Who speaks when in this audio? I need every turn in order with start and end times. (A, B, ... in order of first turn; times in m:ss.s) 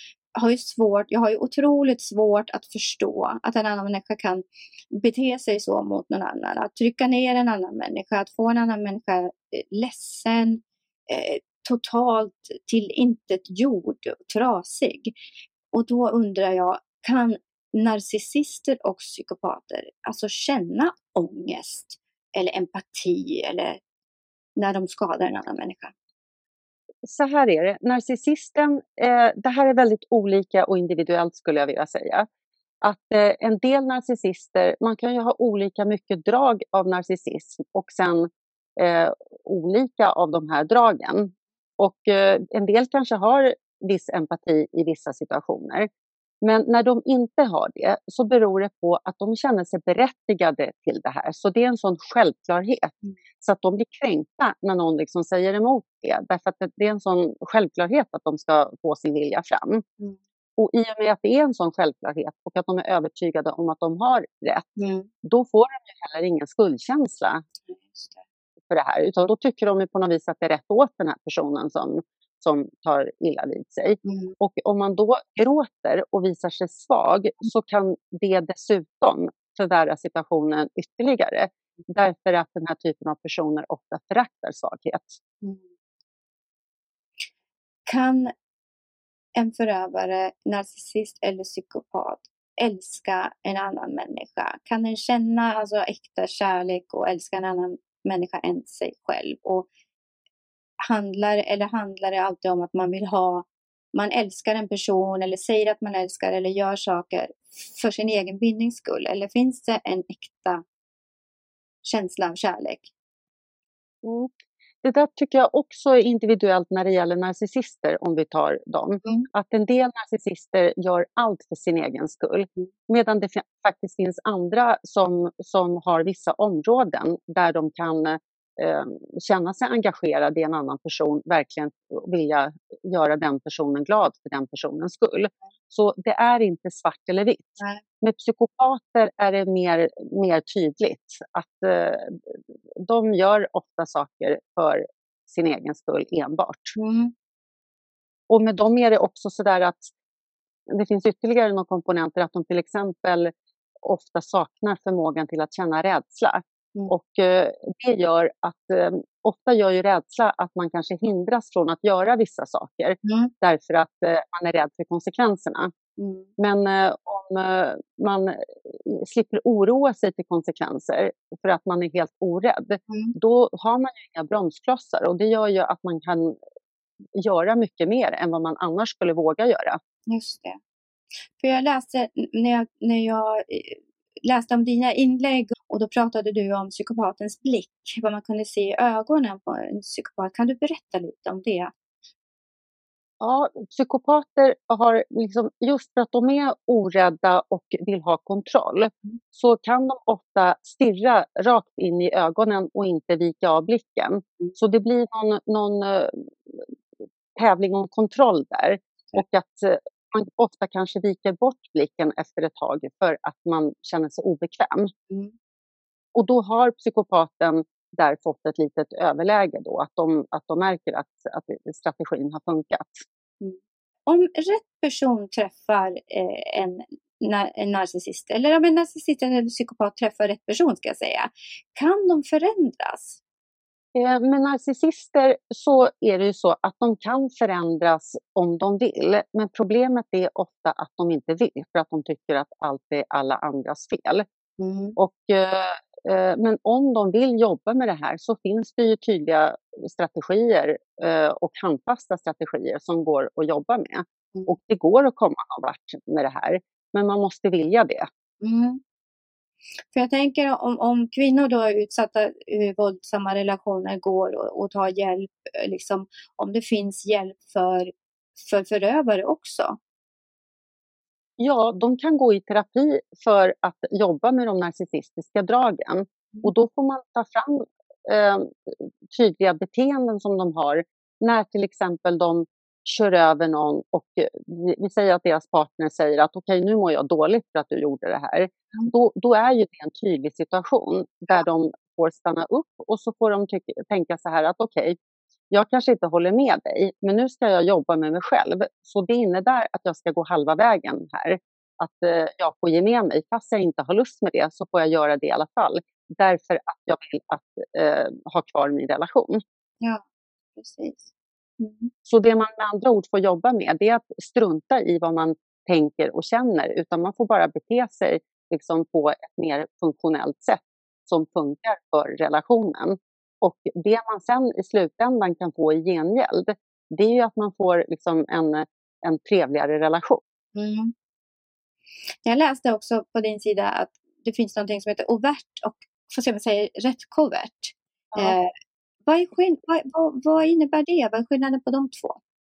0:00.3-0:15.1 A
0:15.7-0:23.8 A
0:24.6-0:25.9 A
0:27.0-0:32.3 B
0:32.8-0:45.9 B
0:46.4-0:59.8 B
1:00.6-1:07.4 B
1:04.8-1:05.1 A
1:07.7-1:08.2 A
1:08.7-1:25.2 B
1:14.0-1:14.3 A
1:27.9-1:28.3 A
1:29.4-1:39.7 A
1:40.8-1:50.6 A
1:51.8-1:52.9 A
1:54.0-1:54.3 B
1:54.8-2:26.8 B
2:26.8-2:27.1 A
2:28.3-2:29.9 B
2:30.7-2:33.3 B
2:33.8-2:45.7 B
2:43.0-2:43.3 A
2:46.0-2:46.3 A
2:46.4-2:56.4 B
2:52.9-2:53.1 A
2:57.2-2:59.8 B
3:00.1-3:00.6 A
3:01.4-3:11.7 A
3:13.2-3:26.7 B
3:27.4-3:34.9 B
3:36.1-3:43.0 B
3:43.4-3:53.2 A
3:53.9-4:04.2 B
4:04.6-4:05.0 A
4:05.0-4:18.1 B
4:18.4-4:18.8 A
4:19.9-4:29.8 A
4:31.4-4:55.0 B
4:55.5-5:09.4 B
5:10.6-5:11.1 A
5:11.6-5:11.9 A
5:12.0-5:30.2 B
5:30.5-5:30.9 A
5:32.2-5:38.5 A
5:39.0-5:42.2 A